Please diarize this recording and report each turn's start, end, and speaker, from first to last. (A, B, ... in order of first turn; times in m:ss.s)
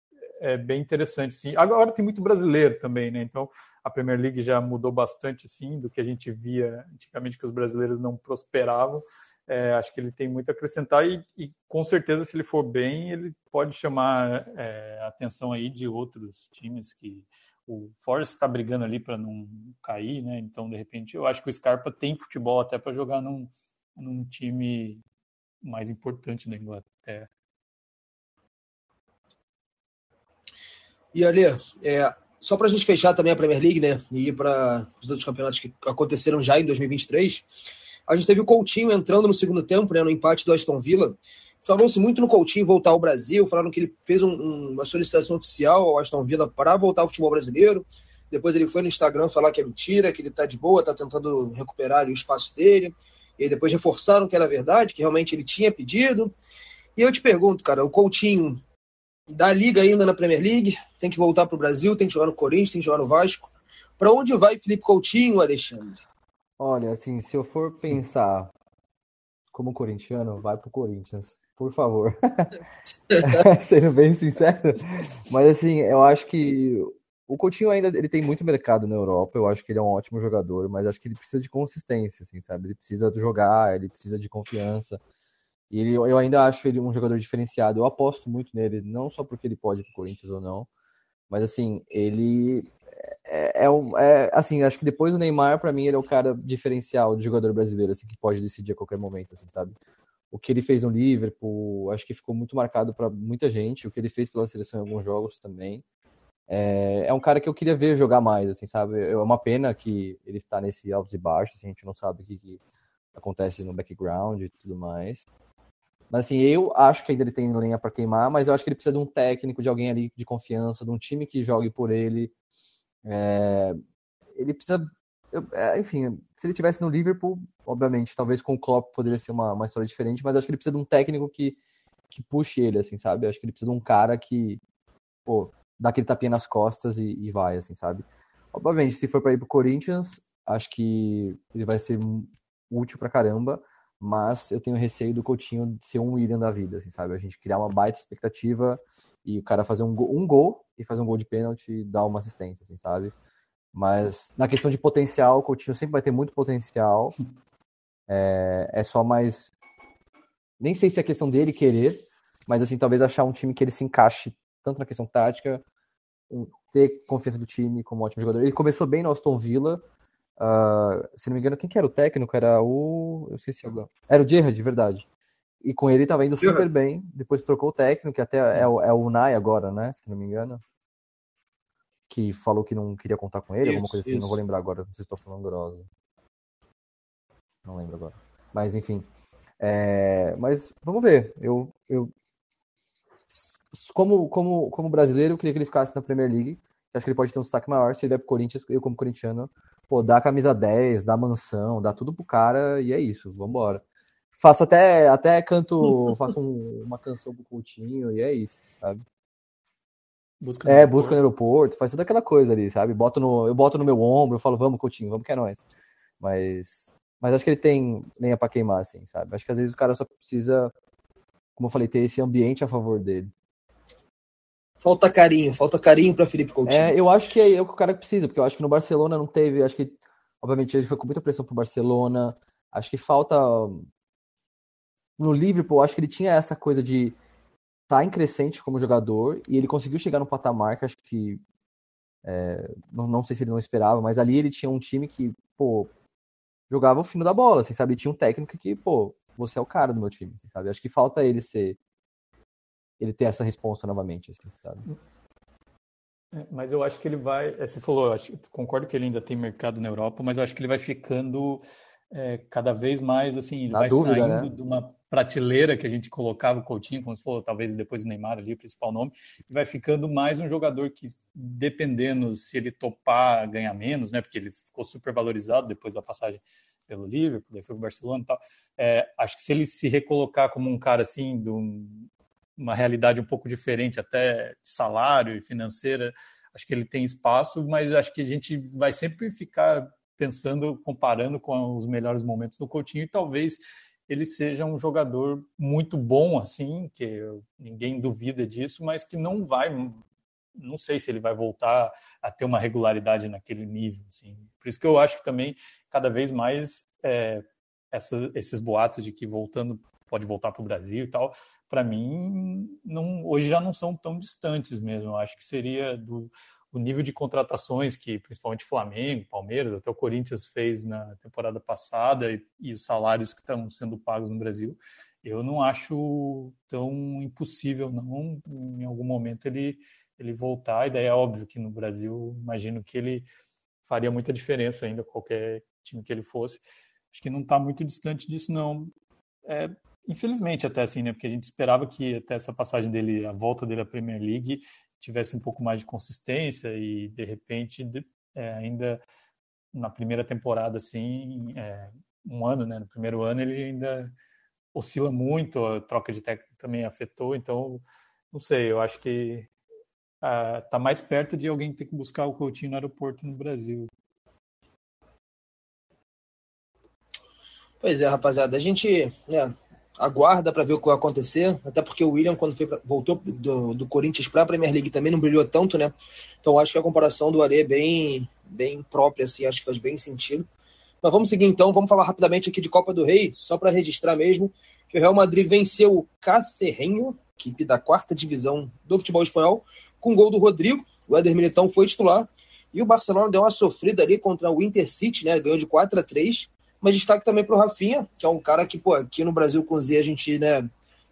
0:00.4-0:25.0 A
0:25.6-0:27.3 A
0:31.1-0:37.4 B
0:38.1-0:56.3 B
0:57.0-0:58.6 B
0:59.3-1:06.0 B
1:06.6-1:08.5 C
1:09.5-1:12.6 C
1:13.1-1:13.4 B
1:13.2-1:25.0 C
1:25.7-1:30.7 C
1:31.3-1:39.8 C
1:40.3-1:45.8 C
1:46.5-1:52.6 C
1:53.1-1:55.3 C
1:56.1-2:02.3 C
2:03.0-2:03.8 C
2:04.3-2:11.6 C
2:12.1-2:14.6 C
2:15.2-2:33.1 C
2:33.7-2:37.1 C
2:38.1-2:39.5 C
2:40.6-2:45.6 C
2:46.3-2:49.8 C
2:50.4-2:55.0 C
2:55.6-3:00.6 C
2:56.4-2:56.7 B
3:02.1-3:05.9 C
3:03.6-3:04.4 B
3:07.6-3:09.1 C
3:09.6-3:12.1 C
3:13.3-3:23.8 C
3:24.4-3:29.0 C
3:30.4-3:31.2 A
3:30.6-3:35.6 C
3:36.2-3:40.7 C
3:41.6-3:43.3 C
3:44.8-3:46.9 B
3:46.6-3:53.9 C
3:55.2-3:57.2 C
3:57.9-4:01.4 C
4:02.2-4:05.9 C
4:06.7-4:11.8 C
4:13.0-4:14.8 C
4:16.3-5:00.0 A
4:23.7-4:24.5 C
5:00.6-5:33.3 A
5:33.8-5:38.9 A
5:39.4-5:49.0 A
5:49.7-5:54.1 A
5:54.7-5:59.5 A
6:00.2-6:03.9 A
6:07.8-6:20.5 B
6:21.0-6:40.7 B